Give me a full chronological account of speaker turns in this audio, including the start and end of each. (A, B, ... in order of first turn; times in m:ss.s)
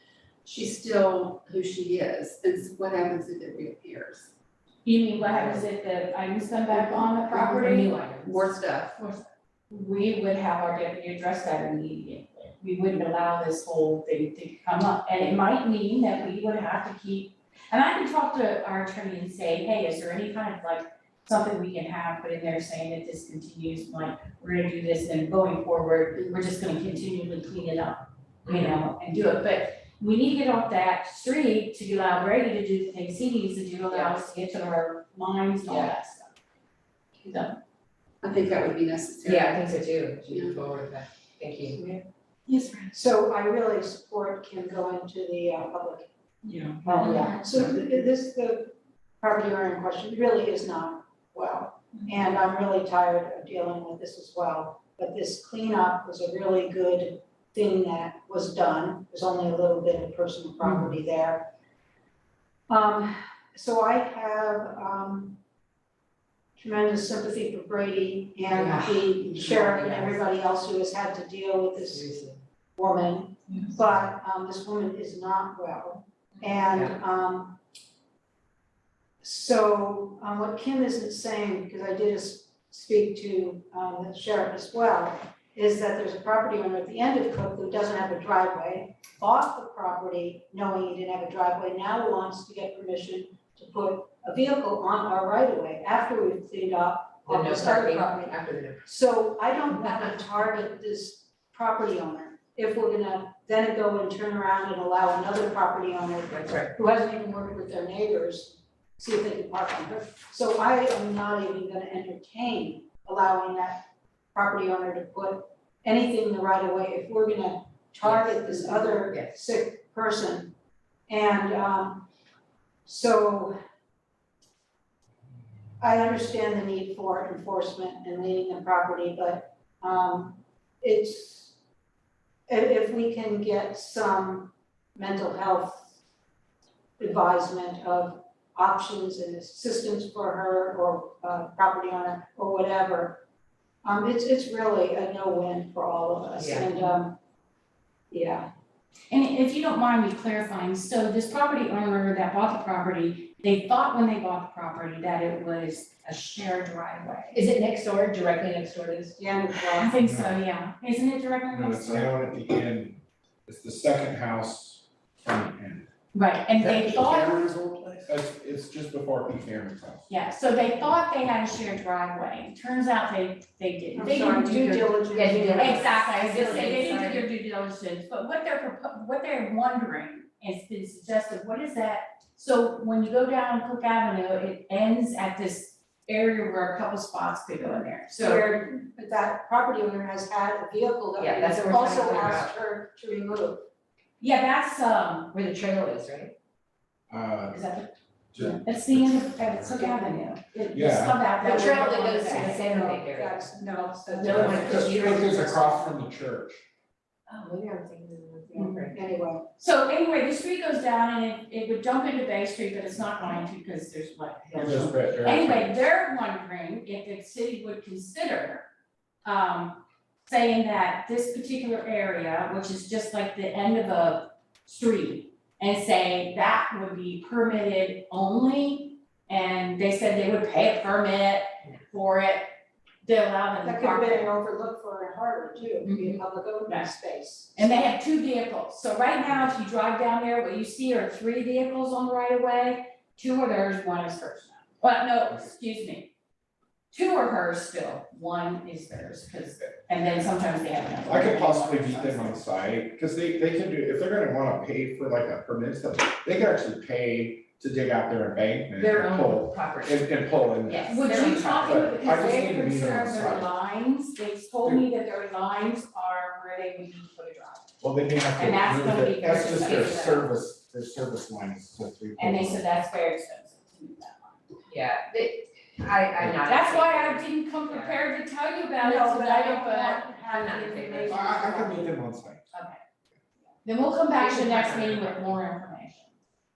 0:00.4-0:04.3 A
0:04.8-0:08.3 B
0:05.2-0:05.6 C
0:07.3-0:09.2 C
0:08.3-0:09.1 A
0:09.7-0:36.3 B
0:28.5-0:28.8 C
0:33.9-0:34.2 C
0:35.7-0:35.9 C
0:37.2-0:37.6 B
0:38.2-0:39.7 A
0:39.2-0:41.8 C
0:40.3-0:40.6 A
0:42.9-0:46.1 D
0:46.8-1:01.5 D
0:46.9-0:47.7 C
1:00.6-1:00.9 C
1:02.7-1:05.4 D
1:06.6-1:12.1 D
1:08.5-1:10.2 C
1:11.8-1:12.4 C
1:12.8-1:17.6 D
1:16.4-1:17.0 C
1:19.2-1:53.8 D
1:37.3-1:38.9 C
1:39.7-1:40.1 C
1:46.3-1:46.7 C
1:54.3-2:00.5 D
1:58.0-1:59.4 C
2:01.1-2:02.0 D
2:02.9-2:03.6 D
2:05.8-2:11.6 D
2:12.5-2:15.8 D
2:17.0-2:23.2 D
2:23.8-2:27.2 D
2:26.4-2:26.7 C
2:28.1-2:28.5 D
2:29.1-2:37.4 B
2:37.3-2:39.2 C
2:39.2-2:40.0 D
2:39.7-2:42.1 B
2:40.0-2:40.4 E
2:41.5-2:45.9 E
2:46.1-2:47.4 B
2:47.0-2:48.0 A
2:48.1-2:50.1 E
2:50.1-2:55.0 B
2:54.0-2:55.9 D
2:55.1-2:57.2 C
2:55.5-3:08.5 B
3:08.2-3:13.6 D
3:11.2-3:12.5 C
3:14.2-3:15.3 B
3:15.3-3:16.3 C
3:17.1-3:17.6 E
3:17.5-3:22.6 B
3:18.3-3:19.2 E
3:20.7-3:21.2 E
3:21.4-3:23.5 C
3:22.2-3:25.7 D
3:24.0-3:25.6 C
3:24.2-3:25.0 B
3:24.2-3:26.6 E
3:27.3-3:29.0 C
3:28.5-3:28.9 B
3:28.9-3:29.5 D
3:29.6-3:38.7 B
3:34.4-3:34.9 C
3:34.5-3:35.7 E
3:39.2-3:52.5 B
3:53.0-3:54.3 B
3:53.6-3:57.8 D
3:55.8-3:56.9 B
3:57.6-4:06.1 B
4:06.9-4:12.4 B
4:11.1-4:21.0 E
4:18.8-4:22.2 C
4:20.9-4:27.7 B
4:21.5-4:23.5 E
4:27.8-4:32.6 E
4:28.4-4:30.1 B
4:29.5-4:30.3 C
4:32.2-4:34.6 B
4:34.7-4:38.1 C
4:36.4-4:40.1 B
4:38.8-4:42.0 D
4:40.2-4:41.3 C
4:41.1-4:42.4 E
4:42.5-4:42.8 B
4:43.6-4:46.2 B
4:44.2-4:45.4 C